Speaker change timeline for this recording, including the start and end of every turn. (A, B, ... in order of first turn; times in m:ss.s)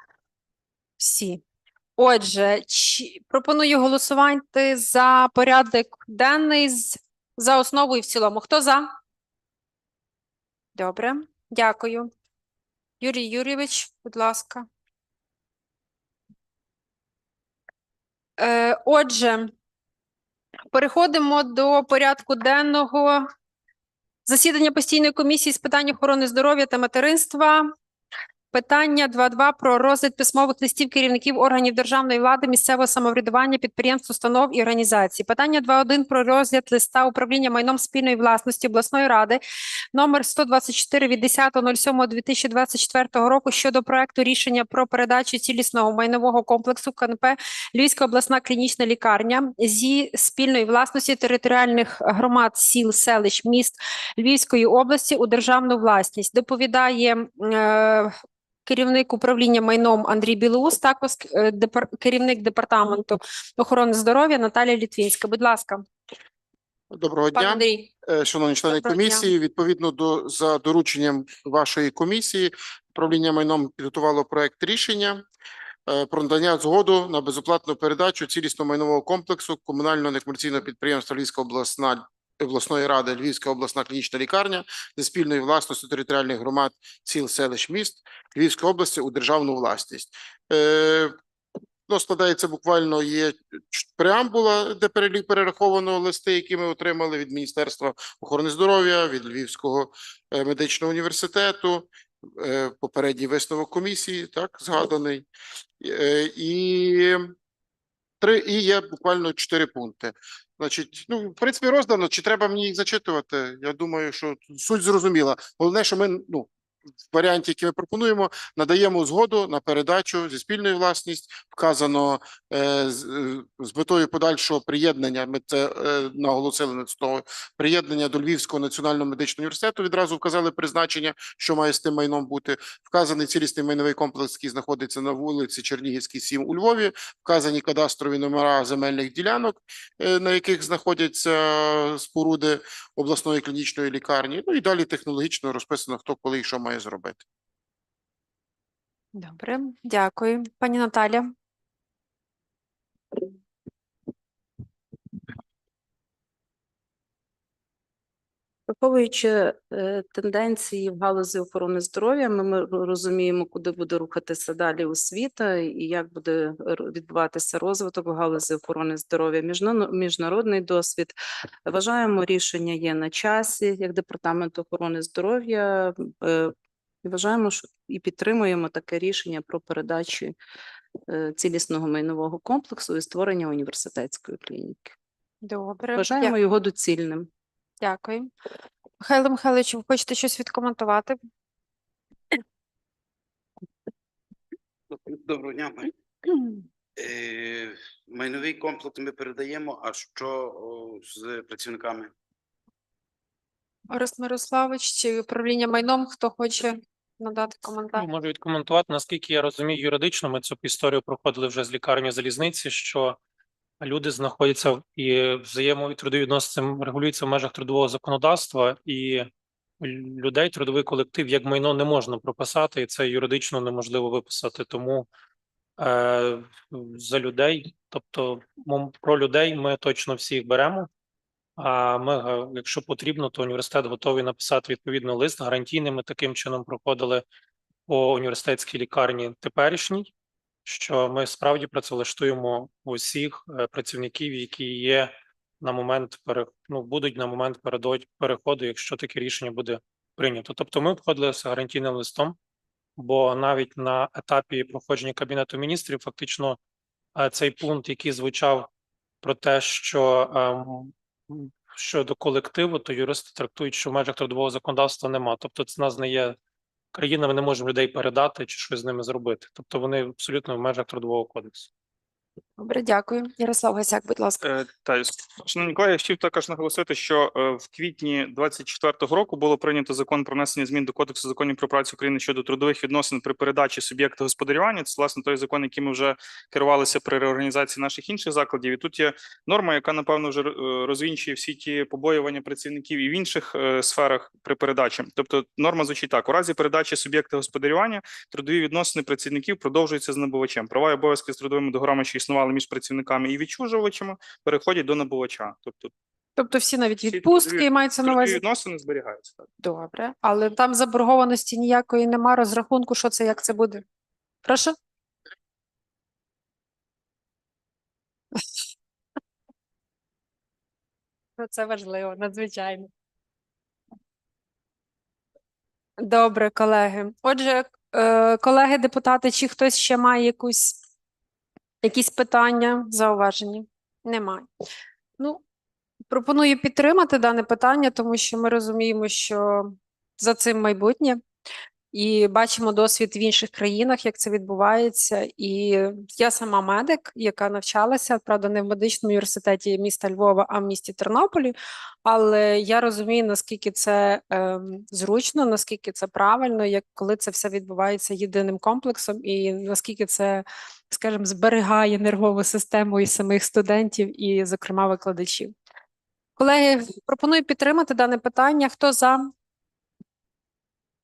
0:01.0-0:01.4 A
0:02.0-0:08.9 A
0:10.8-0:12.1 A
0:13.0-0:14.7 A
0:18.4-0:19.5 A
0:20.7-0:23.3 A
0:24.3-0:27.7 A
0:28.5-0:39.4 A
0:39.9-0:58.1 A
0:58.7-1:05.8 A
1:06.9-1:15.2 B
1:07.3-1:07.9 A
1:08.7-1:09.3 A
1:15.9-1:31.2 B
1:31.9-1:45.2 B
1:45.8-1:47.3 B
1:48.2-1:56.5 B
1:57.1-2:27.2 B
2:29.2-2:31.3 A
2:38.7-3:00.3 C
3:01.1-3:05.0 C
3:05.4-3:06.3 A
3:06.0-3:07.3 C
3:07.8-3:08.3 A
3:09.0-3:11.2 A
3:14.9-3:15.9 D
3:17.0-3:22.1 D
3:23.9-3:28.1 A
3:28.0-3:33.2 E
3:33.8-3:45.1 E
3:45.8-3:50.9 E
3:51.6-3:57.2 E
3:57.9-4:00.1 E
4:00.7-4:12.4 E
4:13.0-4:16.6 E
4:17.2-4:18.7 E
4:19.2-4:26.4 E
4:26.9-4:31.7 E
4:32.6-4:34.4 A
4:34.4-5:05.9 F
5:06.4-5:08.4 A
5:07.1-5:09.5 F
5:09.6-5:13.8 A
5:14.4-5:14.8 A
5:21.4-5:22.9 A
5:26.0-5:30.8 A
5:31.8-5:34.4 A
5:36.1-5:41.2 A
5:41.9-6:05.5 A
6:06.4-6:09.3 A